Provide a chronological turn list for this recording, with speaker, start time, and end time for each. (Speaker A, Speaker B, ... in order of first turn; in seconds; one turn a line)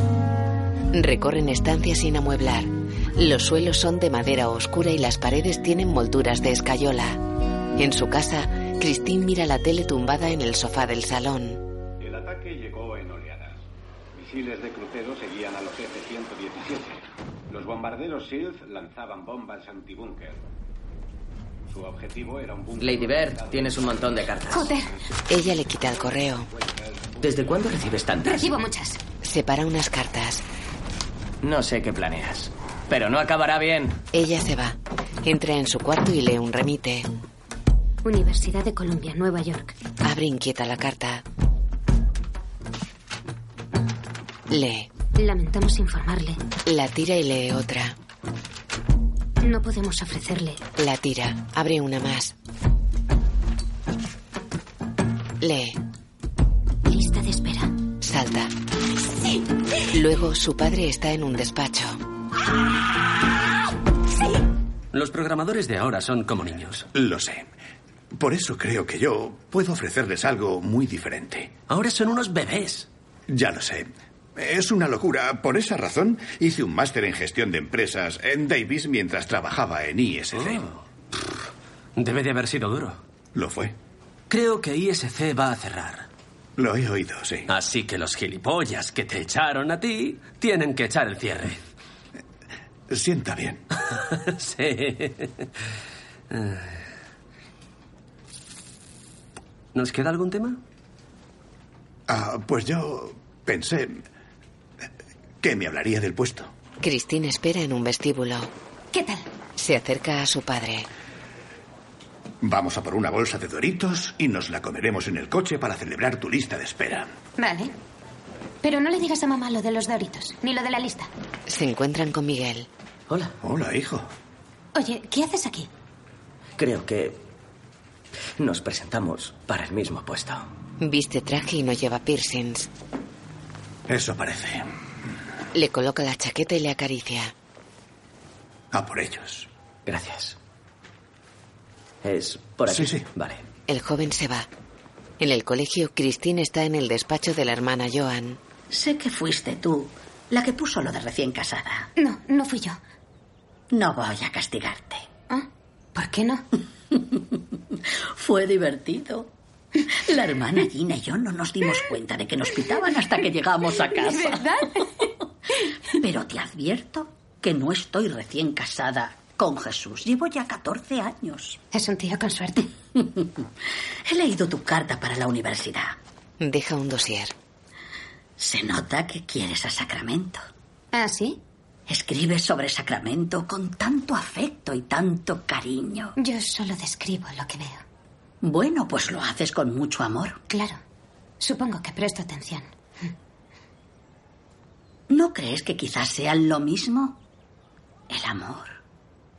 Speaker A: 0.9-7.2
Speaker A: 7.8-11.6
Speaker B: 12.0-13.6
Speaker B: 14.2-20.4
Speaker B: 21.7-27.6
Speaker C: 22.8-24.7
Speaker D: 24.5-24.9
Speaker A: 25.3-26.5
Speaker C: 27.2-28.5
Speaker D: 28.3-29.0
Speaker A: 29.2-30.4
Speaker C: 31.4-34.0
Speaker A: 34.1-37.1
Speaker D: 38.0-39.7
Speaker A: 40.0-41.2
Speaker A: 44.5-44.9
Speaker D: 45.2-46.4
Speaker A: 46.7-48.0
Speaker D: 49.4-50.6
Speaker A: 50.8-52.4
Speaker A: 55.4-55.8
Speaker D: 56.9-57.7
Speaker A: 58.0-58.5
Speaker A: 59.9-62.0
Speaker E: 64.9-66.9
Speaker F: 66.9-67.5
Speaker F: 68.1-71.5
Speaker E: 71.7-72.9
Speaker F: 73.3-80.7
Speaker E: 82.0-83.0
Speaker F: 83.3-83.8
Speaker E: 84.3-86.1
Speaker F: 86.6-87.5
Speaker E: 87.5-91.6
Speaker F: 92.9-93.6
Speaker E: 94.3-95.5
Speaker E: 96.3-96.8
Speaker E: 99.7-100.6
Speaker F: 102.1-104.0
Speaker F: 105.4-106.5
Speaker A: 106.8-108.5
Speaker D: 108.9-109.2
Speaker A: 109.6-110.9
Speaker F: 112.4-117.1
Speaker D: 117.4-117.7
Speaker D: 118.6-121.1
Speaker A: 121.5-122.7
Speaker C: 123.1-123.3
Speaker F: 123.4-124.1
Speaker D: 124.8-125.7
Speaker C: 126.6-127.2
Speaker C: 128.4-130.5
Speaker A: 130.8-132.7
Speaker F: 133.9-134.7
Speaker A: 135.5-137.3
Speaker F: 138.7-139.5
Speaker C: 139.9-140.4
Speaker C: 142.0-143.4
Speaker F: 142.7-143.1
Speaker A: 143.7-144.5
Speaker A: 145.2-148.4
Speaker G: 148.7-151.9
Speaker D: 152.0-152.8
Speaker G: 153.7-155.1
Speaker D: 155.3-156.4
Speaker G: 158.2-159.3
Speaker G: 159.9-164.5
Speaker D: 164.0-165.0
Speaker G: 165.9-171.6
Speaker D: 171.7-172.7
Speaker G: 174.1-176.0
Speaker A: 176.4-177.3
Speaker G: 178.4-180.4
Speaker D: 180.9-181.4
Speaker G: 181.9-186.1
Speaker D: 186.2-187.8
Speaker G: 188.4-190.4
Speaker D: 190.5-190.8
Speaker D: 191.4-193.1
Speaker G: 195.1-197.2
Speaker G: 198.1-198.8